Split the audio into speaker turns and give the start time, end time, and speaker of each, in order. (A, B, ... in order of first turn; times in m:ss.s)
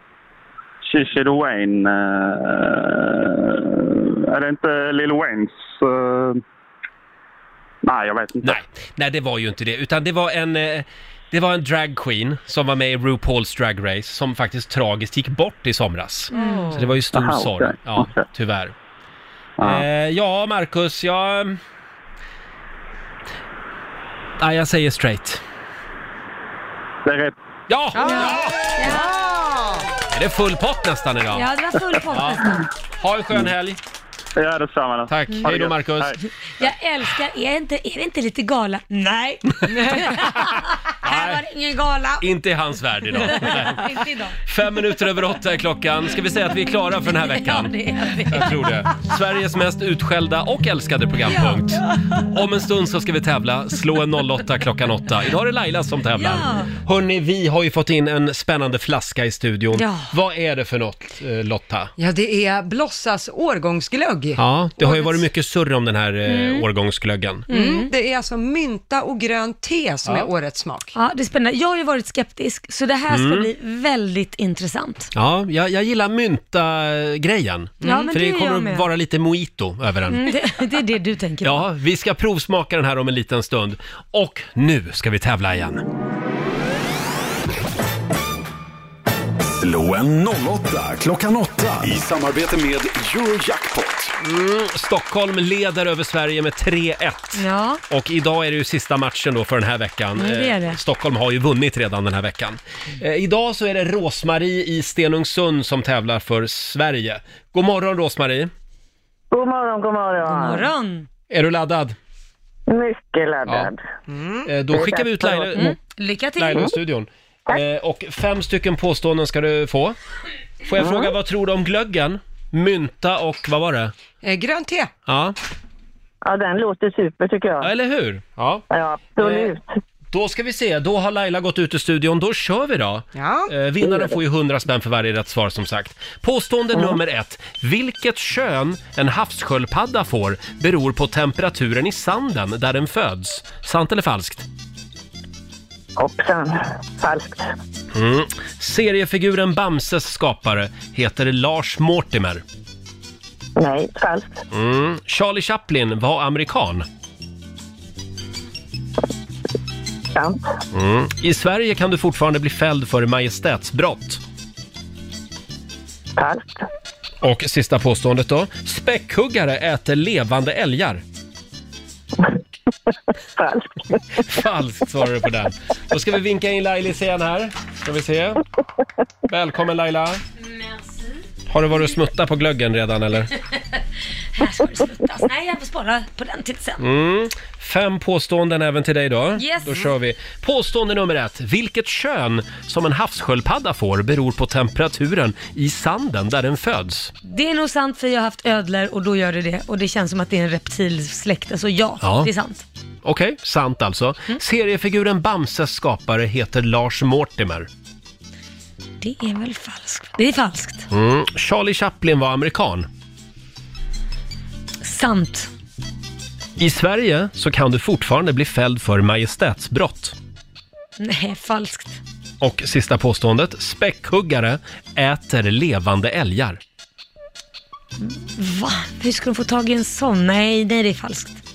0:00.8-0:06.4 A
0:07.8-0:08.6 A
0:08.4-0:18.7 B
0:16.3-0:16.8 C
0:16.3-0:16.8 D
0:17.1-0:18.2 A
0:19.6-0:19.8 A
0:19.6-0:21.6 B
0:24.4-0:25.4 B
0:27.0-0:27.4 A
0:27.7-0:28.6 B
0:28.0-0:29.9 D
0:28.0-0:29.1 C
0:30.1-0:31.5 B
0:31.3-0:32.6 C
0:32.1-0:33.8 B
0:34.4-0:36.2 A
0:35.1-0:36.2 B
0:36.6-0:42.3 C
0:40.1-0:40.4 B
0:41.0-0:41.4 B
0:42.2-1:01.9 B
0:43.1-0:44.4 C
0:47.2-0:48.8 C
0:51.3-0:52.1 C
0:56.2-0:56.7 C
0:59.7-1:00.1 C
1:02.0-1:05.0 D
1:04.4-1:07.5 B
1:06.3-1:06.7 C
1:07.5-1:07.9 C
1:07.5-1:10.9 D
1:10.0-1:10.3 B
1:11.0-1:15.1 C
1:13.1-1:13.5 B
1:15.1-1:20.4 B
1:17.8-1:18.1 D
1:17.8-1:18.9 C
1:20.1-1:21.6 C
1:21.4-1:25.8 B
1:29.6-1:34.1 E
1:34.2-1:48.5 B
1:37.4-1:37.8 C
1:40.2-1:40.8 C
1:49.3-1:50.7 F
1:50.3-1:51.1 C
1:51.3-1:52.0 B
1:52.7-1:53.8 F
1:54.1-1:54.5 D
1:54.5-1:55.8 B
1:54.7-1:55.7 F
1:55.6-1:56.7 C
1:56.4-2:00.0 B
2:00.7-2:03.9 B
2:00.8-2:01.1 F
2:04.2-2:04.9 D
2:05.1-2:05.4 B
2:06.2-2:07.7 F
2:07.6-2:08.6 B
2:08.7-2:09.6 F
2:09.2-2:09.5 B
2:10.1-2:24.5 B
2:13.2-2:13.5 D
2:13.8-2:14.2 F
2:26.0-2:27.5 F
2:27.9-2:32.4 B
2:33.6-2:34.4 F
2:34.5-2:36.9 B
2:40.1-2:40.4 F
2:40.7-2:44.2 B
2:46.2-2:46.7 F
2:47.2-2:51.0 B
2:53.4-2:54.0 F
2:54.2-2:58.4 B
2:59.3-3:00.2 B
3:00.4-3:01.2 C
3:01.5-3:03.3 B
3:04.4-3:06.8 C
3:06.8-3:17.1 B
3:09.4-3:09.9 C
3:17.2-3:22.6 C
3:22.0-3:22.3 B
3:23.0-3:27.7 B
3:29.0-3:30.9 C
3:30.9-3:32.9 B
3:34.8-3:35.5 C
3:36.6-3:40.2 B
3:41.0-3:42.0 C
3:42.4-3:46.6 B
3:48.0-3:51.4 C